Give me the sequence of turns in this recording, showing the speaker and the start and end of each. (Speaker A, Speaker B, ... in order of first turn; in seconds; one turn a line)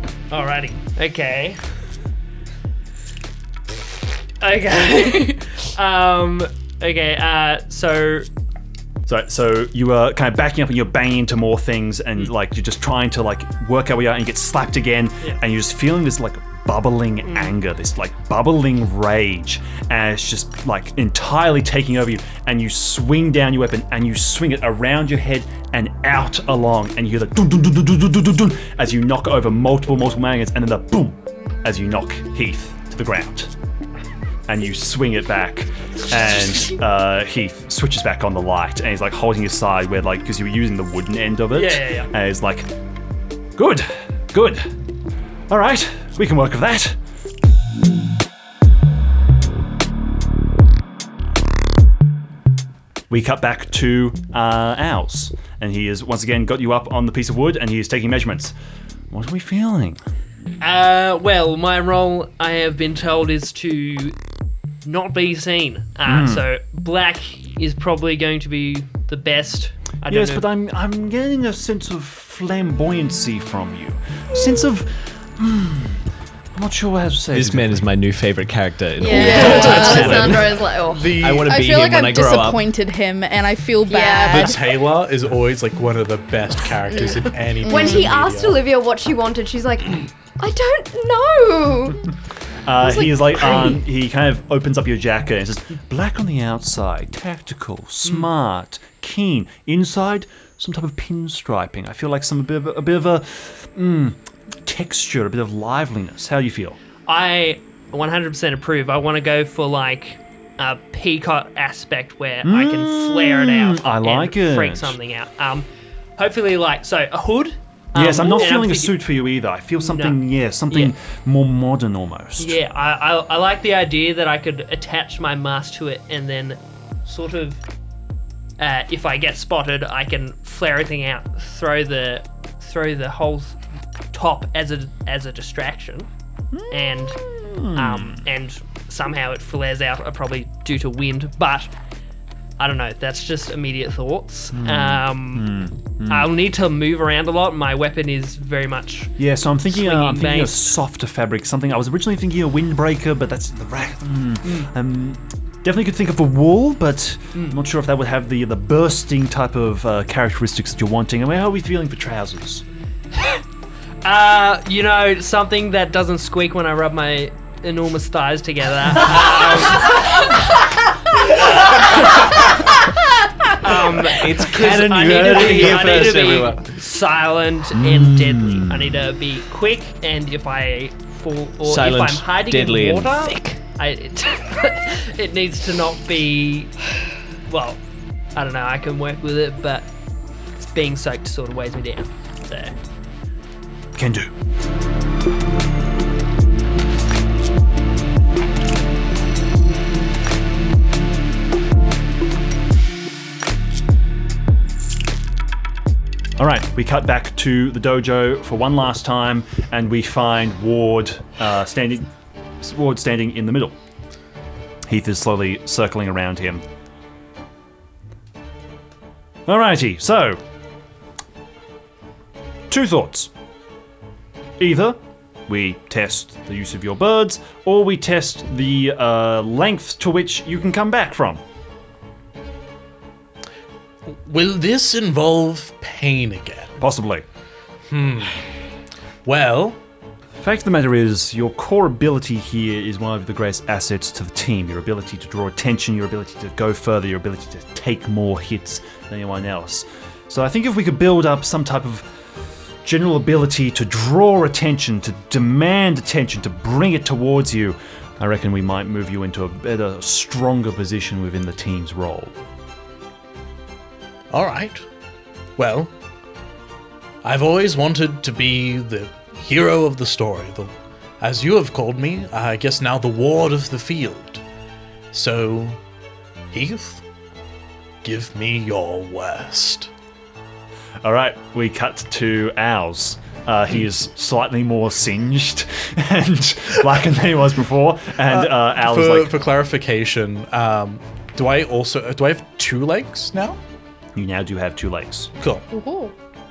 Speaker A: 0.3-1.8
Speaker A: 4.4-8.3
Speaker B: 9.1-33.5
Speaker A: 17.2-17.5
Speaker B: 34.5-42.7
Speaker A: 41.5-42.1
Speaker B: 43.5-44.7
Speaker B: 45.5-47.0
Speaker B: 53.1-58.5
Speaker B: 59.1-60.0
Speaker A: 60.6-64.2
Speaker A: 64.8-70.4
Speaker B: 66.0-66.5
Speaker B: 70.1-77.9
Speaker C: 77.3-80.6
Speaker D: 79.0-81.1
Speaker E: 79.0-80.2
Speaker F: 79.6-81.5
Speaker C: 81.2-82.6
Speaker E: 81.5-84.8
Speaker D: 83.8-84.6
Speaker F: 84.3-88.6
Speaker D: 86.9-92.0
Speaker E: 87.6-88.1
Speaker B: 92.6-106.8
Speaker D: 92.8-93.8
Speaker A: 107.1-119.0
Speaker B: 112.4-115.0
Speaker B: 117.9-122.6
Speaker A: 119.8-120.9
Speaker A: 122.4-127.6
Speaker A: 128.6-136.1
Speaker B: 136.5-138.3
Speaker A: 136.7-141.7
Speaker A: 142.6-150.7
Speaker B: 144.5-146.3
Speaker B: 149.2-162.6
Speaker A: 154.4-154.7
Speaker A: 164.0-172.8
Speaker A: 173.6-186.8
Speaker C: 173.7-176.8
Speaker B: 177.7-179.1
Speaker C: 181.6-183.6
Speaker A: 187.4-187.8
Speaker A: 188.3-189.9
Speaker A: 190.6-192.8
Speaker B: 193.9-194.3
Speaker B: 206.4-212.1
Speaker B: 212.6-213.8
Speaker B: 214.9-216.6
Speaker B: 219.4-220.4
Speaker B: 222.7-223.3
Speaker B: 224.6-231.4
Speaker F: 234.1-236.7
Speaker B: 236.8-237.2
Speaker F: 237.9-238.4
Speaker F: 239.2-239.8
Speaker B: 240.4-262.4
Speaker F: 264.3-264.9
Speaker F: 265.6-265.9
Speaker F: 267.2-274.4
Speaker F: 275.1-275.8
Speaker F: 276.5-277.0
Speaker F: 278.0-279.9
Speaker B: 281.0-289.3
Speaker F: 288.2-293.6
Speaker B: 294.1-295.3
Speaker F: 295.4-295.6
Speaker E: 295.7-296.1